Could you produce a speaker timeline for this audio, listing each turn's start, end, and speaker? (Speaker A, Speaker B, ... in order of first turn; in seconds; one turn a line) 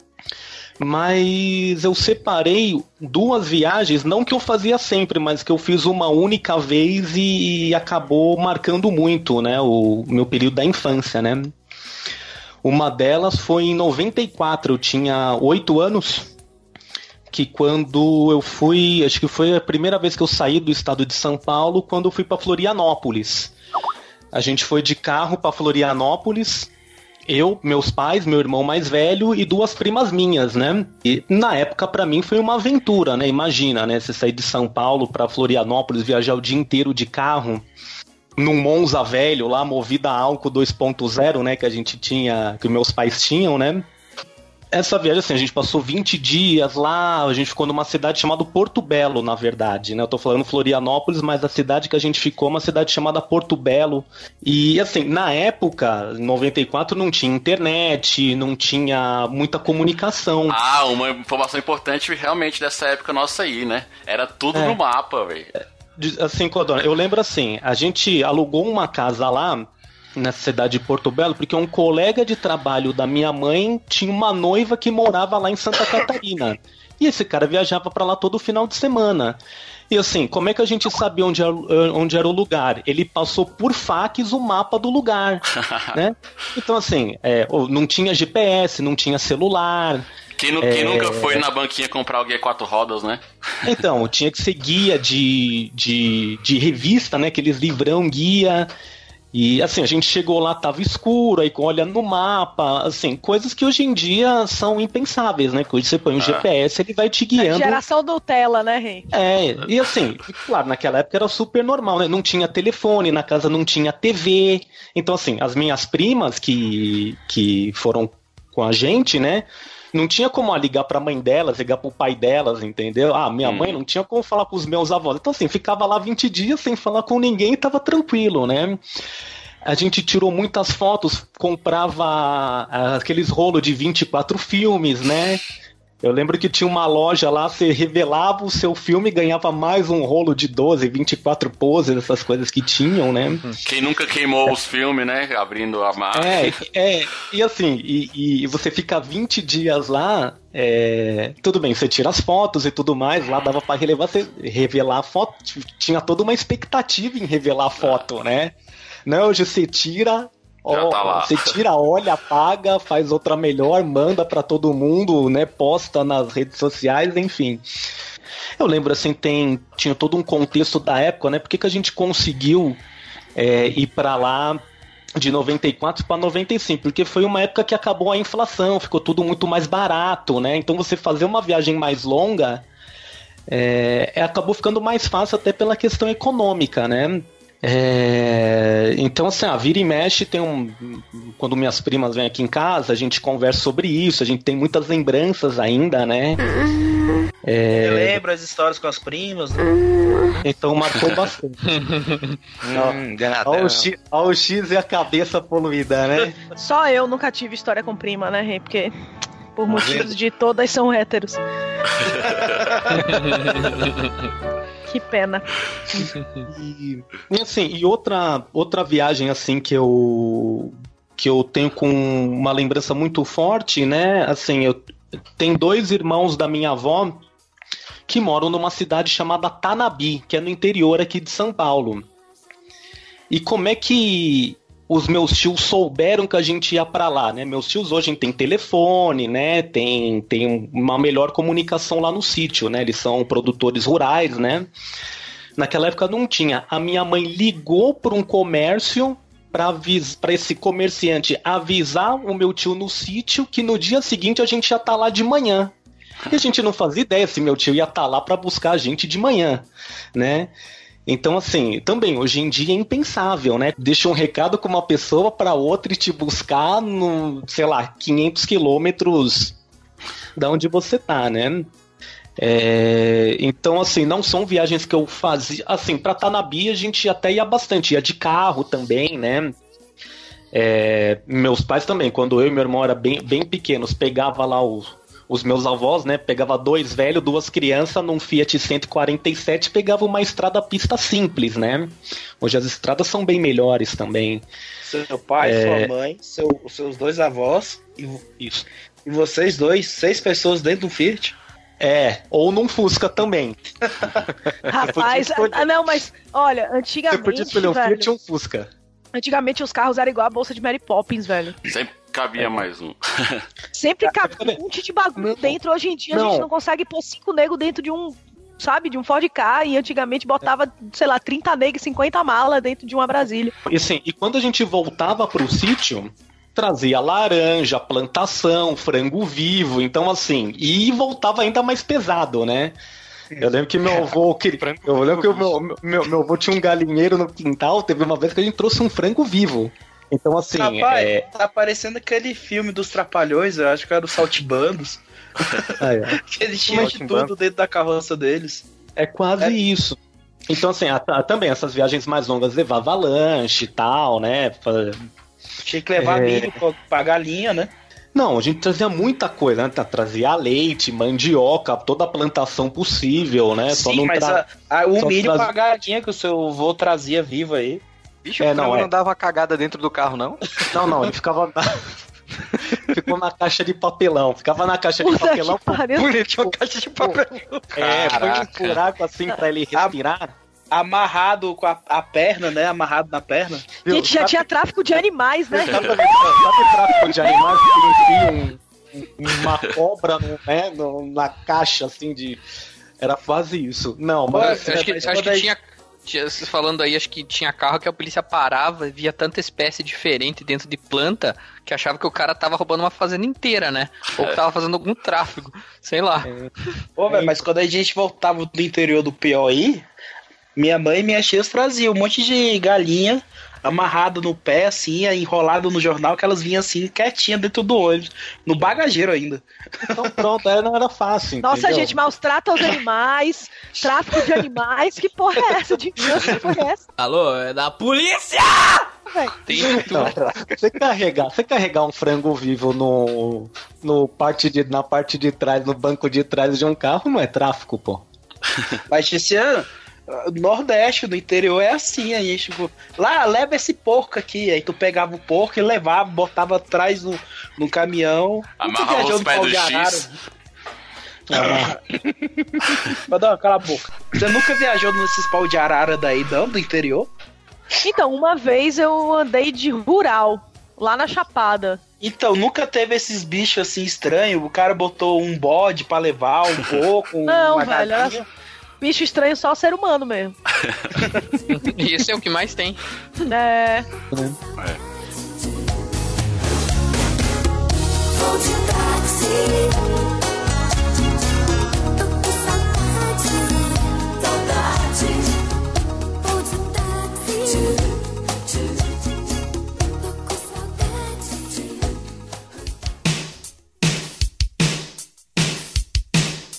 Speaker A: 0.8-11.5
Speaker A: 12.6-16.3
Speaker A: 17.3-23.5
Speaker A: 24.3-26.7
Speaker A: 27.3-37.6
Speaker A: 38.4-43.9
Speaker A: 44.7-60.6
Speaker B: 60.5-65.5
Speaker A: 64.5-64.8
Speaker A: 66.0-79.4
Speaker A: 79.9-90.1
Speaker B: 90.4-93.2
Speaker A: 90.6-91.4
Speaker A: 93.6-98.7
Speaker A: 99.3-107.8
Speaker B: 106.2-106.5
Speaker C: 107.4-109.1
Speaker A: 109.1-128.8
Speaker B: 123.4-123.8
Speaker A: 129.6-135.4
Speaker A: 136.0-143.4
Speaker B: 143.6-146.6
Speaker A: 146.1-158.5
Speaker A: 159.1-167.6
Speaker B: 160.7-161.6
Speaker A: 168.6-172.8
Speaker A: 173.3-174.6
Speaker A: 175.2-182.7
Speaker A: 183.5-196.4
Speaker A: 197.4-198.2
Speaker D: 197.7-199.7
Speaker A: 200.4-201.7
Speaker E: 201.8-202.3
Speaker F: 202.6-203.9
Speaker A: 202.7-206.4
Speaker C: 206.6-208.9
Speaker C: 209.5-211.4
Speaker A: 209.7-210.1
Speaker C: 214.9-216.1
Speaker A: 216.5-227.2
Speaker A: 228.1-232.1
Speaker A: 233.3-244.7
Speaker A: 245.6-255.7
Speaker A: 256.3-260.5
Speaker A: 261.1-269.6
Speaker A: 270.4-271.7
Speaker A: 272.4-279.5
Speaker A: 280.5-294.4
Speaker D: 294.8-298.3
Speaker A: 295.4-295.9
Speaker A: 298.4-298.6
Speaker D: 299.0-301.4
Speaker A: 301.8-304.1
Speaker A: 304.6-305.7
Speaker C: 304.7-308.1
Speaker A: 307.1-308.7
Speaker C: 309.1-311.6
Speaker B: 311.6-313.4
Speaker C: 313.7-323.5
Speaker A: 314.1-314.6
Speaker A: 315.2-315.6
Speaker A: 316.1-316.5
Speaker A: 323.7-332.8
Speaker A: 333.4-341.2
Speaker F: 334.6-335.6
Speaker D: 340.5-345.6
Speaker A: 345.8-347.0
Speaker D: 346.2-348.7
Speaker F: 346.7-347.3
Speaker A: 349.0-355.0
Speaker D: 355.6-357.7
Speaker A: 356.0-356.5
Speaker A: 358.1-364.4
Speaker D: 363.7-367.8
Speaker A: 365.0-365.5
Speaker F: 368.2-370.4
Speaker A: 368.4-368.9
Speaker A: 370.7-371.9
Speaker A: 372.9-375.8
Speaker C: 375.0-376.5
Speaker F: 375.9-378.6
Speaker A: 377.7-380.3
Speaker D: 380.7-383.7
Speaker A: 383.8-384.5
Speaker C: 383.9-385.9
Speaker A: 385.5-392.4
Speaker A: 393.0-394.7
Speaker D: 394.3-395.5
Speaker E: 394.3-406.3
Speaker A: 406.2-406.5
Speaker D: 407.0-409.9
Speaker A: 407.1-407.4
Speaker D: 410.6-420.0
Speaker A: 419.9-422.0
Speaker C: 421.4-426.9
Speaker E: 427.0-428.9
Speaker C: 429.1-429.3
Speaker E: 429.4-430.2
Speaker A: 429.6-438.0
Speaker D: 438.9-450.1
Speaker B: 448.6-450.1
Speaker A: 451.3-451.7
Speaker D: 453.1-457.1
Speaker C: 457.8-461.8
Speaker D: 462.0-468.2
Speaker C: 467.3-468.2
Speaker C: 468.8-470.4
Speaker E: 471.5-472.8
Speaker C: 473.3-473.9
Speaker A: 474.1-474.4
Speaker G: 475.0-475.9
Speaker G: 478.1-480.0
Speaker G: 481.9-485.4
Speaker G: 486.2-492.2